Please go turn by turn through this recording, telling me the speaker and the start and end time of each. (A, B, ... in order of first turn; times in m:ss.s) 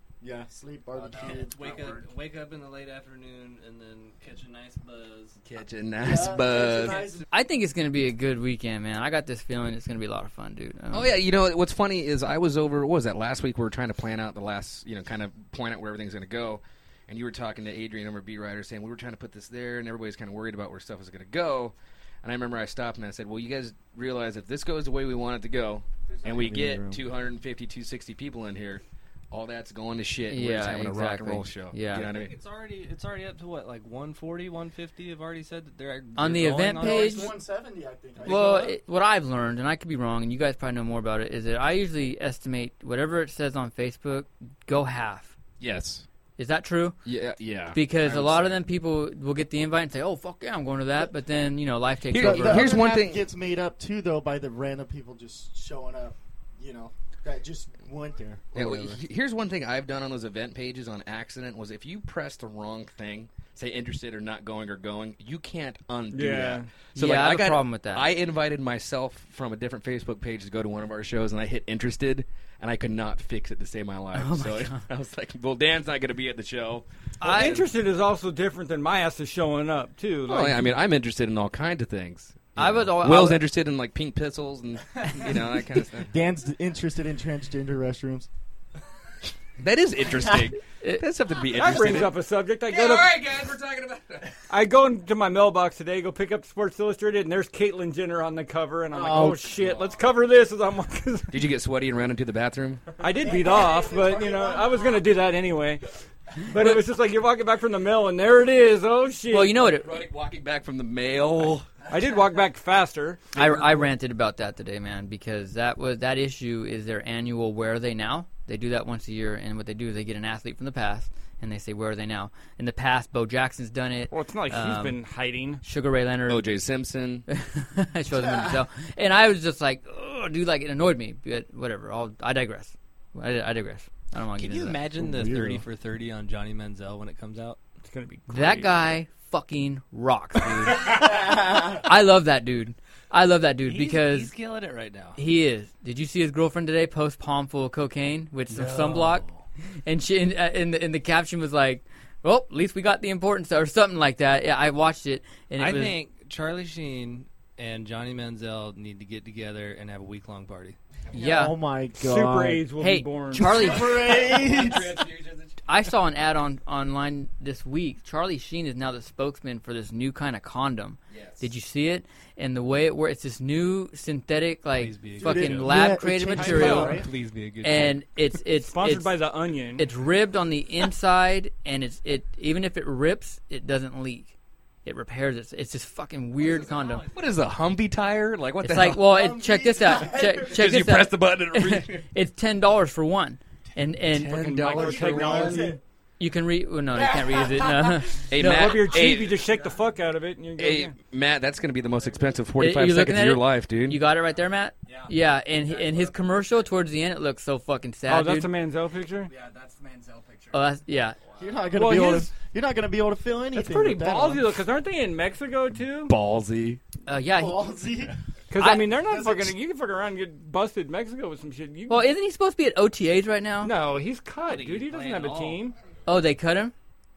0:00.2-0:01.6 A
0:01.0-0:02.1 B
0:01.1-0:05.4 C
0:05.4-0:07.2 D
0:06.0-0:07.2 A
0:07.3-0:11.2 E
0:10.9-0:32.4 D
0:26.2-0:27.0 A
0:30.3-0:32.1 E
0:31.9-0:37.4 C
0:36.2-0:37.3 E
0:36.8-0:38.7 A
0:38.2-0:45.3 E
0:38.4-0:38.7 B
0:45.6-0:46.0 D
0:46.4-0:47.0 E
0:47.0-0:48.6 D
0:47.7-0:52.8 E
0:52.1-0:53.3 D
0:52.1-0:59.0 A
0:58.5-1:17.7 D
1:06.1-1:06.7 F
1:06.9-1:08.1 E
1:14.1-1:14.8 E
1:17.2-1:17.6 E
1:17.2-1:20.7 F
1:20.3-1:26.1 D
1:22.6-1:23.4 E
1:26.0-1:28.3 A
1:29.6-1:34.4 D
1:31.5-1:33.2 F
1:34.5-1:41.4 F
1:38.9-1:39.5 A
1:39.5-1:40.0 D
1:41.3-1:42.9 D
1:43.0-1:49.6 F
1:43.2-1:45.0 A
1:49.3-1:49.9 E
1:49.6-1:51.7 D
1:51.9-1:53.3 F
1:53.3-2:05.0 E
2:04.1-2:05.6 F
2:05.6-2:06.5 E
2:06.3-2:07.2 D
2:07.3-2:14.8 E
2:08.2-2:08.5 A
2:14.3-2:17.6 C
2:15.0-2:15.6 A
2:17.8-2:18.8 F
2:18.3-2:24.3 E
2:23.6-2:25.2 C
2:25.2-2:29.2 E
2:28.5-2:29.4 C
2:29.8-2:36.0 E
2:35.6-2:40.8 C
2:41.1-2:41.6 E
2:41.2-2:42.6 A
2:42.0-2:43.8 F
2:42.8-2:44.2 E
2:43.3-2:45.0 A
2:43.9-2:45.6 D
2:45.6-2:57.0 E
2:51.1-2:51.5 D
2:54.7-2:55.8 C
2:55.2-2:57.1 A
2:56.3-2:58.0 C
2:56.4-2:57.0 F
2:57.6-2:59.1 E
2:58.6-2:59.9 F
2:59.8-3:04.3 E
3:04.8-3:07.1 E
3:06.4-3:07.1 C
3:07.1-3:09.2 D
3:08.6-3:14.5 E
3:09.2-3:10.4 A
3:09.7-3:10.3 B
3:10.4-3:12.0 D
3:14.1-3:15.5 D
3:14.2-3:15.8 F
3:14.7-3:15.8 B
3:14.8-3:15.8 A
3:16.2-3:18.9 E
3:17.0-3:17.8 B
3:18.3-3:19.5 D
3:18.3-3:20.9 F
3:19.5-3:19.8 B
3:20.6-3:24.0 D
3:22.6-3:28.5 E
3:24.8-3:26.7 B
3:28.1-3:29.3 F
3:29.2-3:30.6 B
3:30.5-3:31.2 E
3:31.4-3:34.5 A
3:31.7-3:32.3 F
3:33.5-3:36.1 F
3:36.0-3:36.8 D
3:37.0-3:37.7 E
3:37.3-3:38.1 A
3:38.5-3:42.1 F
3:38.6-3:38.9 E
3:41.9-3:43.7 E
3:43.6-3:45.7 F
3:44.4-3:45.7 C
3:46.0-3:46.7 E